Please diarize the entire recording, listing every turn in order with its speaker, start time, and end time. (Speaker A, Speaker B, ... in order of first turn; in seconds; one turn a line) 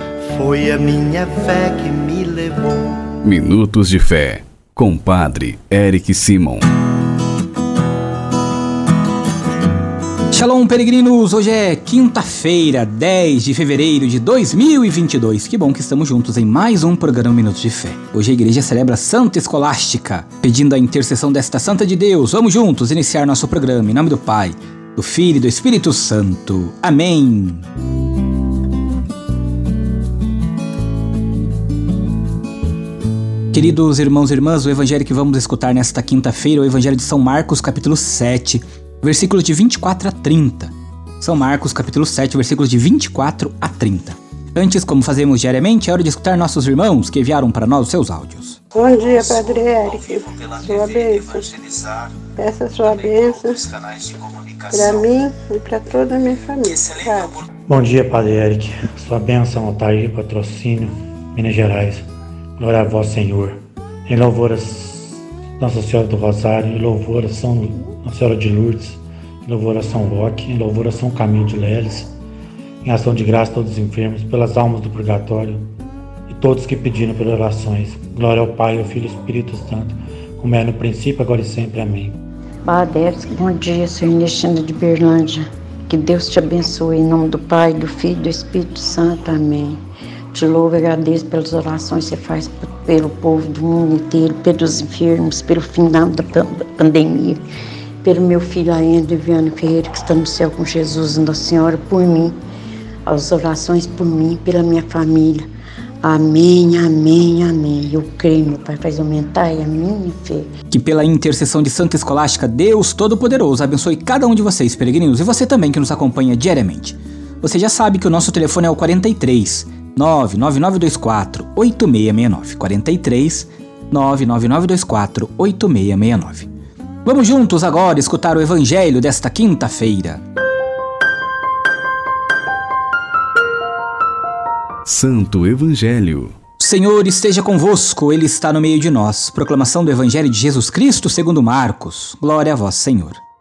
Speaker A: 0.2-2.9
Speaker B: 3.2-6.7
Speaker C: 10.3-27.6
Speaker C: 33.5-48.6
Speaker D: 48.7-57.4
Speaker E: 57.7-62.0
Speaker E: 62.6-72.1
Speaker E: 72.8-75.6
Speaker E: 76.3-82.2
Speaker F: 82.7-89.8
Speaker F: 90.3-97.4
Speaker F: 98.0-102.3
Speaker F: 103.0-105.5
Speaker F: 106.0-110.5
Speaker C: 110.7-126.5
Speaker C: 127.0-130.2
Speaker B: 134.8-136.3
Speaker C: 136.6-143.2